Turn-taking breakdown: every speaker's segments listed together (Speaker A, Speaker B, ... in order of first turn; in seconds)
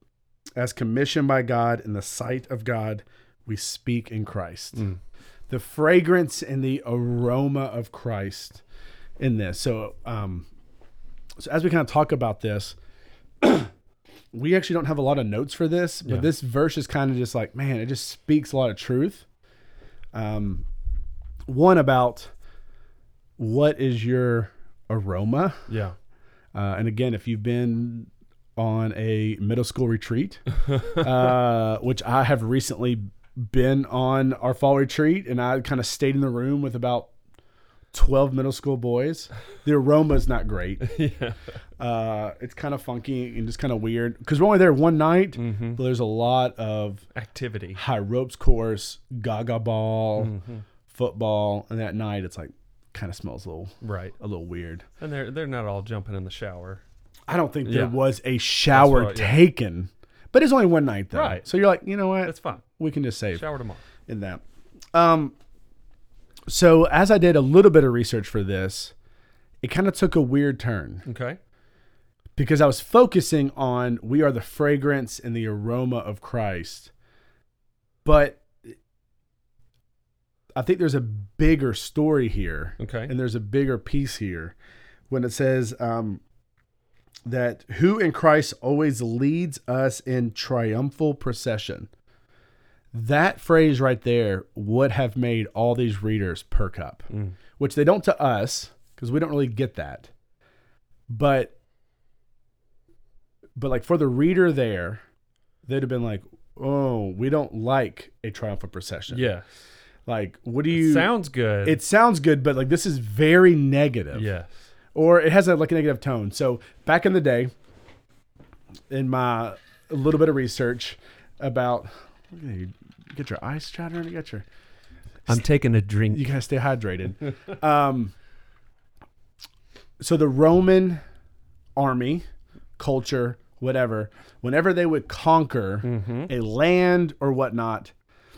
Speaker A: 0.6-4.9, 5.5-8.6, 9.2-10.5, 11.4-12.7, 13.4-13.7, 14.3-19.2, 20.1-20.6, 21.5-22.3, 23.4-25.7, 26.5-37.1, 37.9-40.9, 41.8-47.0, 47.7-50.3, 50.9-54.8, 57.3-63.4, 64.1-64.4, 64.9-65.3, 66.5-68.9, 69.6-71.0, 72.4-76.9, 78.0-78.7, 80.5-84.5, 85.1-86.2, 87.3-91.9, 92.9-100.1, 101.1-101.5, 103.6-105.0, 105.7-109.3, 110.1-111.1, 111.6-114.3, 114.9-117.5, 118.9-124.4, 126.1-128.1, 130.0-131.0, 131.8-132.2, 132.8-137.9
Speaker B: 25.7-25.9, 30.7-31.0, 40.8-41.4, 45.3-45.8, 47.1-47.8, 50.2-50.6, 53.8-54.1, 55.0-56.8, 57.6-58.0, 58.7-59.4, 61.1-61.4, 62.2-62.6, 63.3-63.8, 71.0-71.4, 82.8-83.1, 97.1-97.3, 109.1-109.6, 110.7-111.8, 114.1-114.5, 125.3-126.2, 135.8-136.3